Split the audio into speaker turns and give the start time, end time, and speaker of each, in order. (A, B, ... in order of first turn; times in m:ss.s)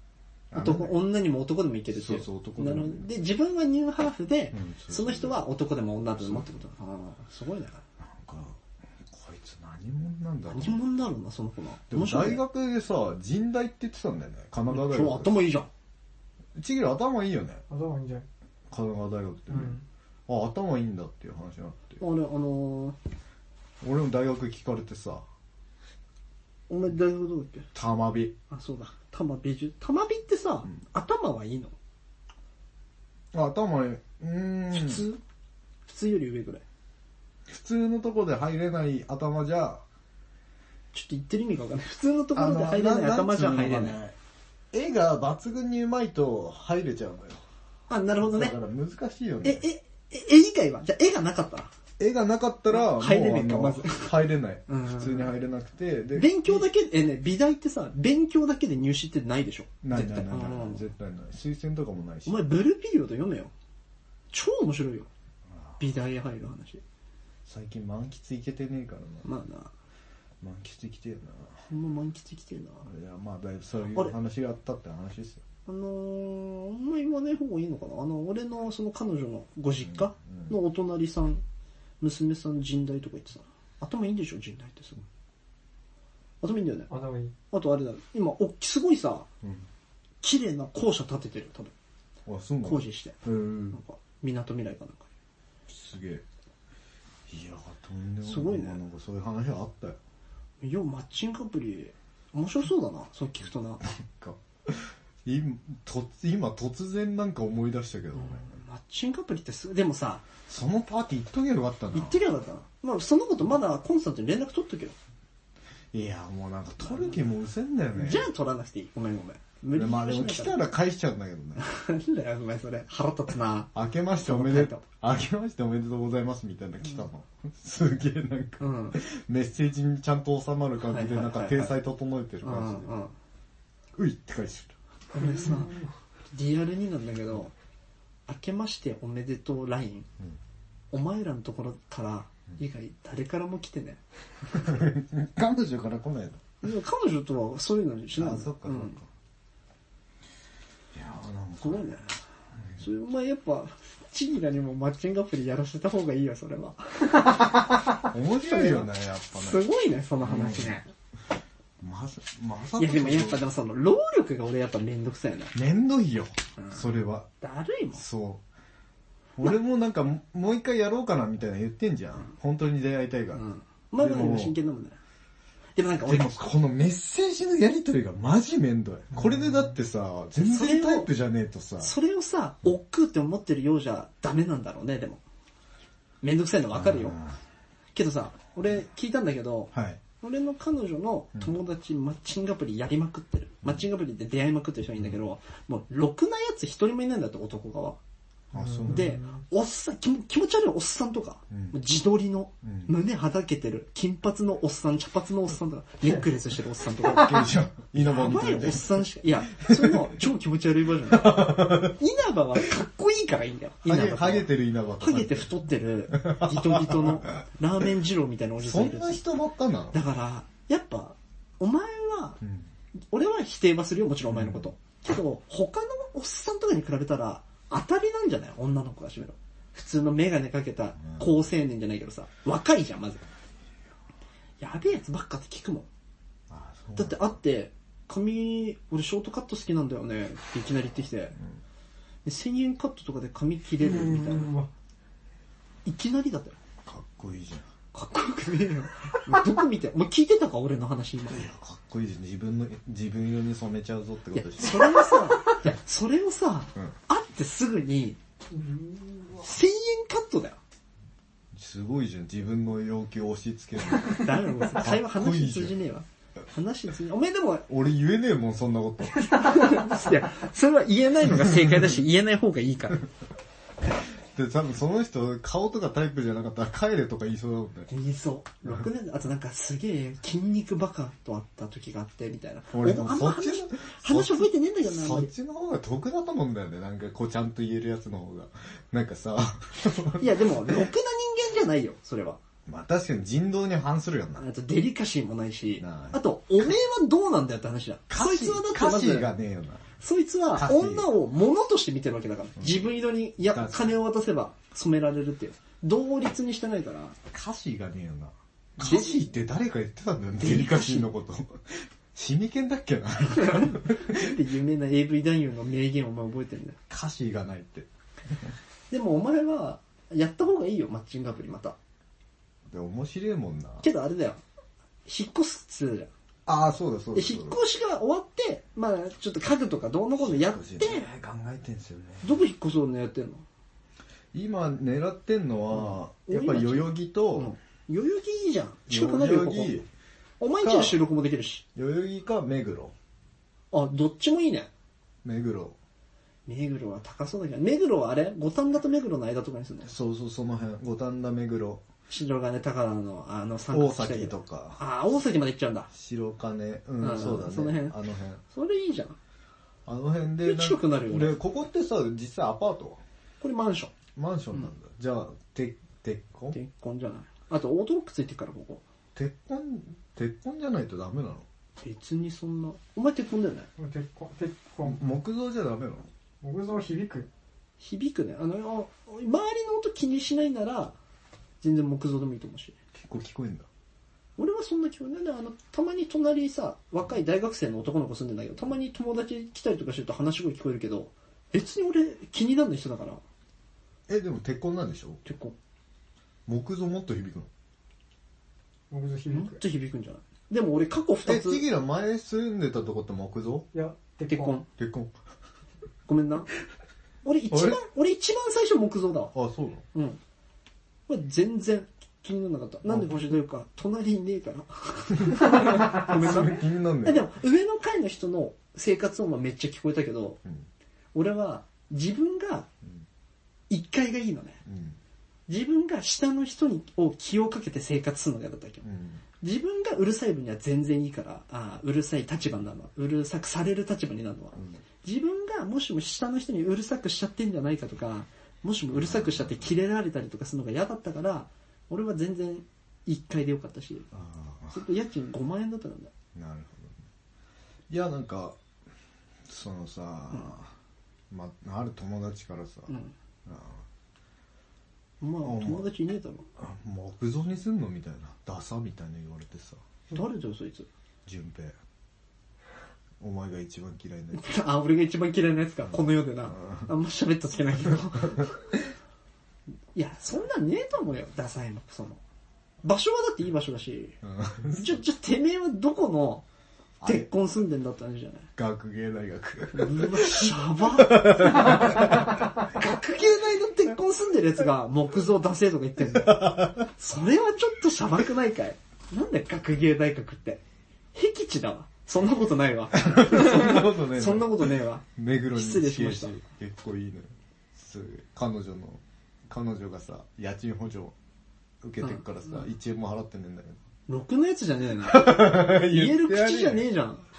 0:00.5-0:01.0 A
0:00.5-0:07.8 B
0:01.9-0:03.0 A
0:04.5-0:05.4 A
0:06.2-0:06.5 A
0:08.0-0:08.6 A
0:09.1-0:10.8 A
0:10.5-0:12.4 B
0:11.9-0:15.4 A
0:14.7-0:15.7 B
0:16.6-0:17.6 A
0:17.7-0:18.2 C
0:18.7-0:22.0 A
0:19.5-0:19.8 C
0:22.0-0:23.0 B
0:23.8-0:25.2 A
0:26.7-0:27.7 B
0:27.7-0:28.3 A
0:28.5-0:31.7 B
0:33.3-0:35.0 A
0:34.7-0:35.2 B
0:35.9-0:36.6 B
0:37.5-0:39.8 A
0:40.9-0:44.0 B
0:42.3-0:44.1 A
0:44.7-0:47.4 A
0:47.9-0:48.6 B
0:48.2-0:49.6 A
0:49.4-0:51.7 B
0:52.0-0:56.7 A
0:52.7-0:54.1 B
0:54.7-0:55.3 B
0:56.1-1:00.8 B
0:59.8-1:02.4 A
1:02.2-1:03.5 B
1:04.3-1:05.1 B
1:05.5-1:05.8 A
1:05.8-1:06.8 B
1:07.4-1:09.2 A
1:09.2-1:09.7 B
1:10.4-1:11.6 A
1:11.7-1:12.9 B
1:12.8-1:15.4 A
1:15.6-1:21.4 B
1:20.0-1:20.5 A
1:22.0-1:25.0 B
1:26.4-1:26.9 B
1:26.9-1:27.3 C
1:27.5-1:29.3 B
1:30.2-1:31.7 B
1:32.2-1:33.8 A
1:32.6-1:33.2 B
1:33.7-1:35.1 B
1:35.7-1:36.2 A
1:37.3-1:40.0 A
1:38.2-1:38.8 B
1:40.6-1:43.8 B
1:43.8-1:48.5 A
1:48.1-1:50.3 B
1:50.5-1:52.2 A
1:51.9-1:55.0 B
1:55.9-1:58.3 A
1:57.9-2:00.6 B
1:59.7-2:01.6 A
2:01.6-2:04.8 B
2:03.7-2:12.9 A
2:08.6-2:09.0 B
2:10.8-2:11.8 B
2:12.4-2:13.1 B
2:14.0-2:14.7 A
2:15.1-2:15.8 B
2:15.2-2:15.8 C
2:16.3-2:17.5 B
2:18.3-2:20.1 B
2:20.9-2:24.0 B
2:24.5-2:26.4 A
2:26.6-2:29.0 B
2:28.1-2:29.1 A
2:30.9-2:31.9 A
2:31.6-2:32.1 B
2:32.8-2:40.9 B
2:38.0-2:39.6 A
2:40.2-2:40.8 A
2:41.8-2:43.4 A
2:42.8-2:45.5 B
2:45.5-2:47.3 A
2:47.4-2:48.0 B
2:47.9-2:48.4 A
2:49.4-2:54.6 A
2:53.3-2:55.0 B
2:55.8-2:56.5 B
2:56.0-3:01.9 A
3:00.4-3:01.1 B
3:01.8-3:05.2 B
3:06.2-3:07.2 B
3:06.7-3:07.4 A
3:07.9-3:18.0 B
3:09.7-3:10.0 A
3:18.5-3:19.2 A
3:18.5-3:19.4 C
3:18.8-3:39.2 B
3:21.5-3:21.8 A
3:22.6-3:22.9 A
3:26.9-3:30.1 A
3:31.1-3:32.0 A
3:33.8-3:35.5 A
3:36.1-3:37.3 A
3:38.6-3:40.1 A
3:39.9-3:42.4 B
3:42.4-3:42.7 A
3:43.1-3:53.2 B
3:44.3-3:44.7 A
3:54.6-3:55.9 B
3:56.5-3:57.3 A
3:57.0-4:01.4 B
4:02.2-4:04.5 B
4:03.8-4:04.7 C
4:05.8-4:06.6 B
4:06.8-4:07.7 A
4:07.9-4:11.5 B
4:11.3-4:15.1 A
4:14.3-4:18.2 B
4:18.5-4:19.4 C
4:19.4-4:20.6 B
4:21.5-4:25.8 A
4:24.1-4:27.7 B
4:27.7-4:29.5 A
4:29.3-4:33.0 B
4:31.4-4:31.8 A
4:34.3-4:37.9 A
4:37.9-4:45.3 B
4:42.7-4:50.8 A
4:50.2-4:52.4 B
4:52.6-4:54.4 A
4:54.4-4:59.3 B
4:55.8-4:56.2 A
4:58.1-4:59.9 A
5:00.0-5:07.2 B
5:00.5-5:01.1 A
5:02.6-5:02.8 A
5:03.4-5:03.9 A
5:07.3-5:11.6 A
5:08.8-5:09.2 B
5:10.4-5:11.1 B
5:12.1-5:14.4 A
5:13.3-5:16.8 B
5:16.9-5:18.5 A
5:18.9-5:21.8 B
5:22.7-5:23.8 A
5:23.8-5:24.4 B
5:25.0-5:26.1 B
5:26.4-5:27.6 A
5:27.1-5:31.1 B
5:30.2-5:32.4 A
5:32.2-5:33.4 B
5:34.3-5:37.5 A
5:35.7-5:39.8 B
5:38.9-5:39.9 A
5:40.4-5:41.6 B
5:40.6-5:41.0 A
5:41.7-5:42.9 A
5:43.7-5:44.7 B
5:45.2-5:45.8 A
5:46.5-5:49.9 B
5:49.8-5:51.8 A
5:52.1-5:55.9 B
5:53.7-5:54.8 A
5:55.9-5:58.4 A
5:57.0-5:57.9 B
5:58.5-5:59.2 B
5:59.8-6:03.0 A
6:00.4-6:01.4 B
6:03.4-6:03.9 B
6:04.1-6:06.6 A
6:06.5-6:08.8 B
6:09.1-6:11.4 A
6:11.8-6:13.7 B
6:13.8-6:15.2 C
6:14.8-6:16.1 A
6:16.4-6:17.3 C
6:17.8-6:21.0 B
6:21.6-6:22.8 B
6:22.9-6:23.7 A
6:24.4-6:33.2 B
6:34.1-6:35.2 A
6:35.2-6:35.6 B
6:36.4-6:37.5 A
6:38.9-6:39.6 C
6:39.3-6:41.6 B
6:41.2-6:43.7 A
6:43.7-6:44.6 C
6:44.2-6:44.7 B
6:44.8-6:45.1 A
6:46.0-6:46.5 B
6:47.2-6:49.3 B
6:47.5-6:47.8 A
6:49.3-6:49.8 A
6:49.9-6:50.2 B
6:51.1-7:00.4 B
6:52.9-6:53.2 A
6:55.3-6:57.3 A
7:01.1-7:02.7 B
7:03.7-7:04.6 B
7:04.6-7:05.0 A
7:05.5-7:08.8 B
7:08.8-7:09.2 A
7:09.4-7:24.1 B
7:14.6-7:14.8 A
7:18.9-7:19.7 A
7:24.1-7:24.8 A
7:24.7-7:26.1 B
7:26.3-7:27.0 A
7:27.9-7:28.6 A
7:29.5-7:30.7 A
7:31.3-7:32.9 A
7:32.9-7:33.1 B
7:33.4-7:33.8 A
7:35.2-7:36.4 B
7:35.4-7:35.9 A
7:36.6-7:39.8 A
7:40.1-7:40.9 B
7:41.2-7:41.8 A
7:43.2-7:44.5 A
7:44.3-7:48.5 B
7:45.9-7:46.9 A
7:49.9-7:52.2 B
7:52.8-7:54.2 B
7:54.2-7:55.0 A
7:54.7-7:56.4 B
7:57.0-7:57.3 A
7:57.0-7:58.5 B
7:58.6-8:02.4 A
7:59.7-8:10.6 B
8:06.0-8:06.9 A
8:11.1-8:16.4 B
8:12.9-8:21.1 A
8:21.8-8:23.8 A
8:24.1-8:27.2 B
8:25.0-8:26.8 A